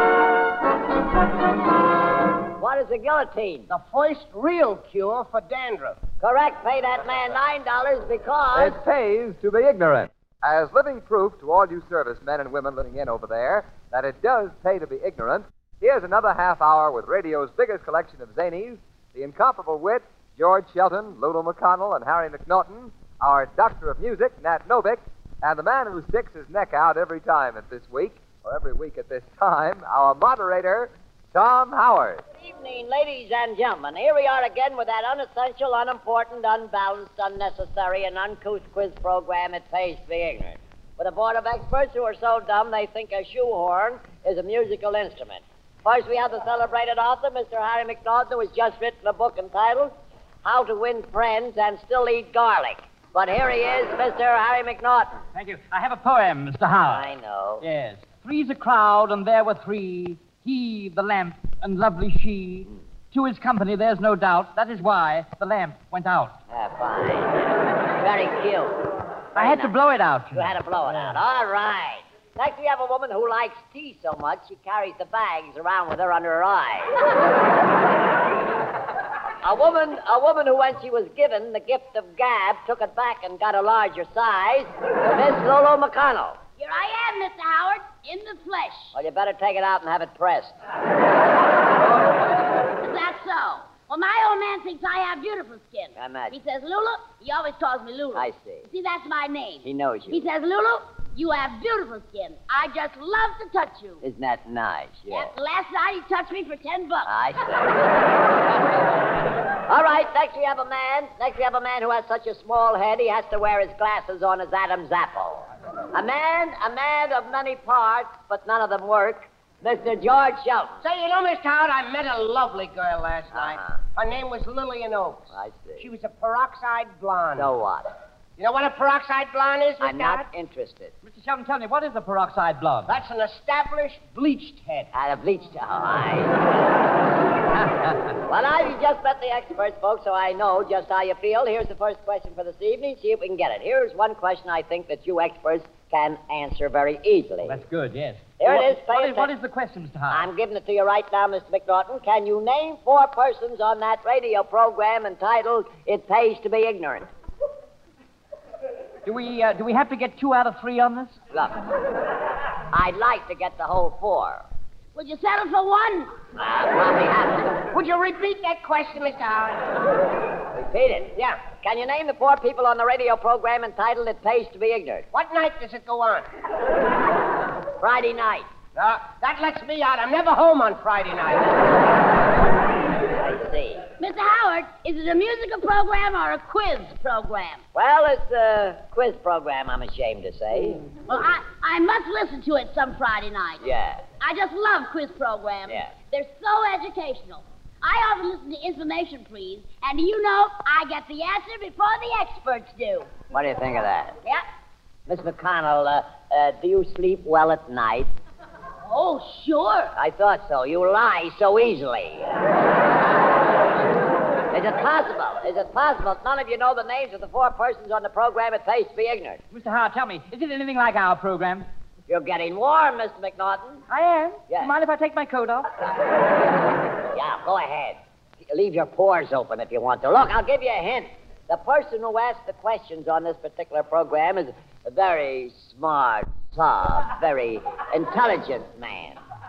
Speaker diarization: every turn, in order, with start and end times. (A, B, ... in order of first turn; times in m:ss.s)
0:02.6-0:03.7 A
0:03.7-0:06.0 B
0:06.2-0:08.8 A
0:08.5-0:32.2 C
0:32.4-0:55.2 A
0:55.4-0:57.1 D
0:56.9-0:57.6 A
0:57.6-1:06.4 D
1:06.5-1:08.8 A
1:09.4-1:10.5 D
1:09.4-1:09.7 A
1:10.3-1:17.0 A
1:19.4-1:26.4 A
1:26.6-1:29.0 E
1:29.0-1:30.6 A
1:32.8-1:44.0 E
1:36.0-1:36.4 A
1:38.1-1:38.7 A
1:39.6-1:40.2 A
1:44.0-1:45.3 A
1:45.1-1:47.1 E
1:47.0-1:47.9 A
1:49.7-2:00.8 A
2:00.8-2:07.5 B
2:03.3-2:03.8 A
2:05.3-2:05.9 A
2:07.4-2:07.9 A
2:08.4-2:10.3 B
2:09.8-2:10.9 A
2:11.0-2:13.0 D
2:12.9-2:14.9 B
2:14.9-2:16.6 A
2:17.5-2:18.2 D
2:18.3-2:27.6 A
2:27.5-2:30.3 D
2:28.4-2:29.3 A
2:30.1-2:37.1 A
2:39.0-2:41.2 D
2:42.7-2:44.4 A
2:45.0-2:46.1 E
2:46.4-2:47.6 A
2:47.7-2:49.7 B
2:50.5-2:55.1 A
2:55.1-2:56.3 B
2:57.8-2:58.5 A
2:58.8-3:02.0 B
3:03.1-3:03.8 A
3:04.0-3:07.6 E
3:07.8-3:10.8 A
3:11.1-3:13.6 E
3:13.6-3:14.0 A
3:14.2-3:23.1 E
3:15.7-3:15.9 A
3:23.3-3:24.2 A
3:25.1-3:28.1 A
3:28.9-3:29.9 E
3:30.0-3:32.3 A
3:34.5-3:39.4 A
3:39.5-3:41.7 D
3:42.1-3:43.8 A
3:43.9-3:45.7 D
3:47.1-3:59.2 A